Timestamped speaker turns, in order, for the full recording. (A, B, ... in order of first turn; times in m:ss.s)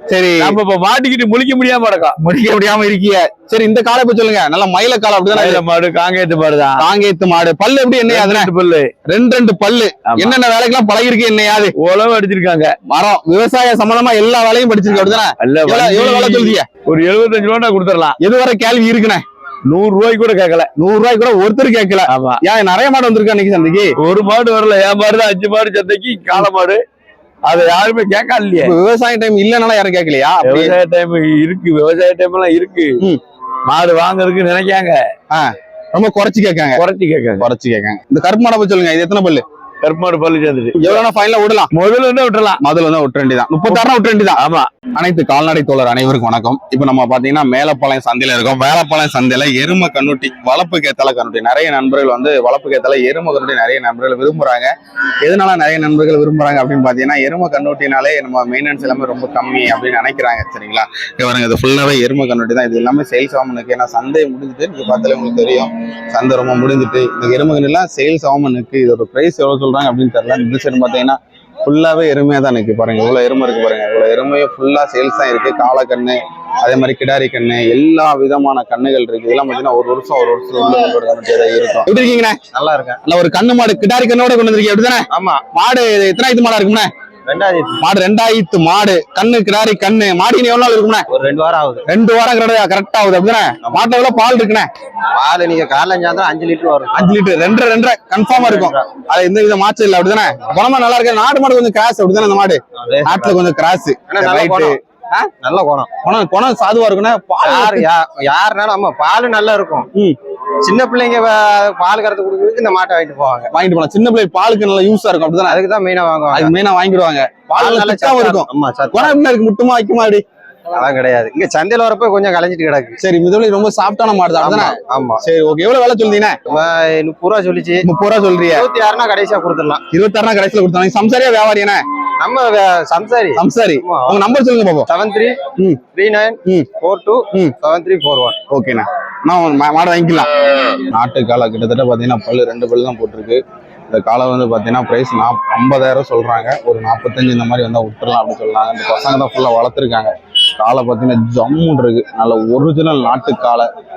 0:00.1-0:00.6 A
0:00.4-0:02.2 B
0:02.2-0:05.6 A
0:05.3-0:06.9 B
0:06.8-0:08.5 A
0:08.1-0:08.9 B
0:09.1-0:11.7 A
0:10.1-0:10.4 B
0:11.8-0:12.7 B
0:12.9-0:16.7 A
0:14.9-0:18.2 B
0:18.2-0:19.2 A
0:19.7-0:20.7 B
0:20.8-0:23.9 A
0:22.1-0:22.4 B
0:24.0-0:26.8 B
0:27.5-0:28.8 B
0:28.6-0:30.8 A
0:30.4-0:32.9 B
0:33.7-0:35.0 B
0:35.3-0:36.8 A
0:36.8-0:37.4 B
0:37.4-0:39.4 A
0:39.8-0:41.0 B
0:40.8-0:41.7 A
0:41.7-0:42.6 B
0:42.6-0:44.4 A
0:44.4-0:44.7 B
0:45.0-0:54.7 A
0:55.2-1:22.4 A
1:22.5-1:23.0 C
1:23.0-1:26.9 A
1:25.1-1:25.4 C
1:27.3-1:27.8 C
1:27.8-1:31.0 A
1:31.1-1:31.8 C
1:31.9-1:34.7 A
1:35.2-1:37.2 C
1:36.9-1:45.2 A
1:38.3-1:38.9 C
1:42.8-1:43.4 C
1:44.1-1:44.7 C
1:45.4-1:45.9 C
1:46.0-1:47.9 A
1:47.4-1:49.9 C
1:50.6-1:53.5 C
1:53.5-1:55.6 A
1:55.4-1:56.5 C
1:56.3-2:00.2 A
1:57.5-1:59.2 C
2:00.7-2:03.0 C
2:03.0-2:06.4 A
2:04.4-2:05.2 C
2:06.5-2:07.9 C
2:07.8-2:08.7 A
2:08.5-2:09.8 C
2:09.9-2:11.8 A
2:12.2-2:14.3 C
2:13.4-2:14.9 A
2:14.9-2:18.4 C
2:15.6-2:15.8 A
2:18.5-2:20.3 A
2:20.9-2:33.7 A